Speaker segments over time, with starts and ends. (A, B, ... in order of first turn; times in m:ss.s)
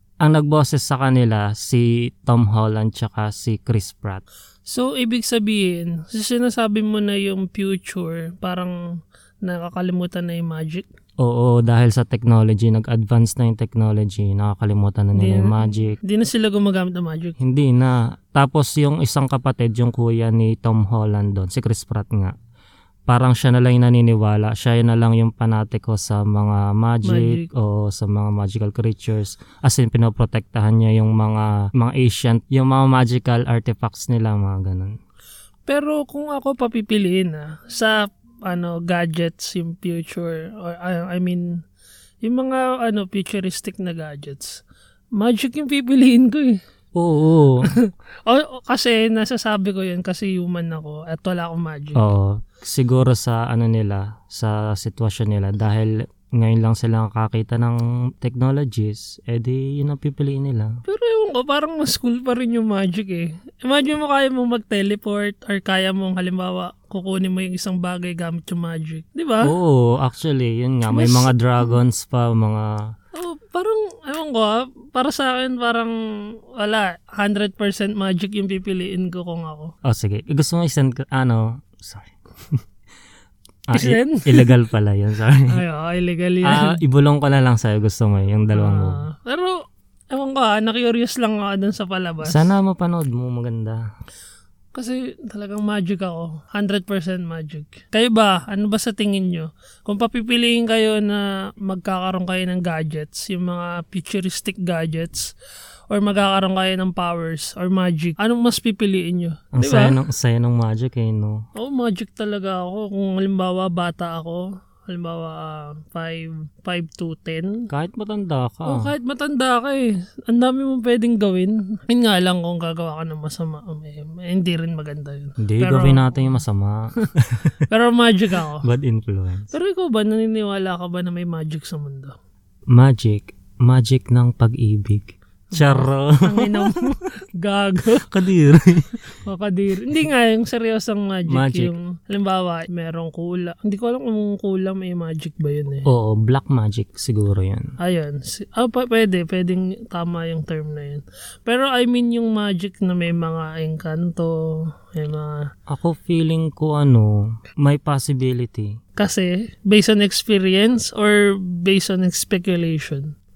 0:00.2-0:04.2 A
0:04.7-0:08.7 B
0:09.4-0:10.8 B
0:11.2-0:16.0 A
0:15.2-0:17.4 B
0:17.4-0:22.3 A
0:23.1-0:35.0 A
0:27.0-0:27.5 B
0:35.7-0:41.6 B
0:42.2-0:44.6 B
0:45.2-0:46.6 B
0:47.0-0:47.7 A
0:47.7-0:52.1 B
0:52.0-1:00.8 A
1:00.8-1:09.5 B
1:09.4-1:12.8 A
1:10.9-1:11.8 B
1:13.1-1:15.9 B
1:16.6-1:19.7 B
1:19.8-1:22.6 A
1:23.7-1:25.6 A
1:23.7-1:24.5 B
1:25.5-1:26.8 B
1:26.4-1:29.0 A
1:28.5-1:29.6 B
1:30.1-1:32.5 B
1:32.2-1:33.8 A
1:34.7-1:45.3 B
1:45.9-1:50.0 B
1:49.5-1:51.4 A
1:51.6-1:57.7 B
1:57.7-1:58.9 A
1:58.6-2:06.4 B
2:05.4-2:07.6 A
2:07.7-2:08.6 B
2:08.6-2:09.5 A
2:09.5-2:12.1 B
2:12.7-2:16.9 A
2:15.5-2:18.1 B
2:18.0-2:18.9 A
2:19.2-2:25.8 B
2:21.3-2:21.7 A
2:25.8-2:27.7 A
2:27.8-2:35.5 B
2:35.7-2:38.7 A
2:39.0-2:43.1 B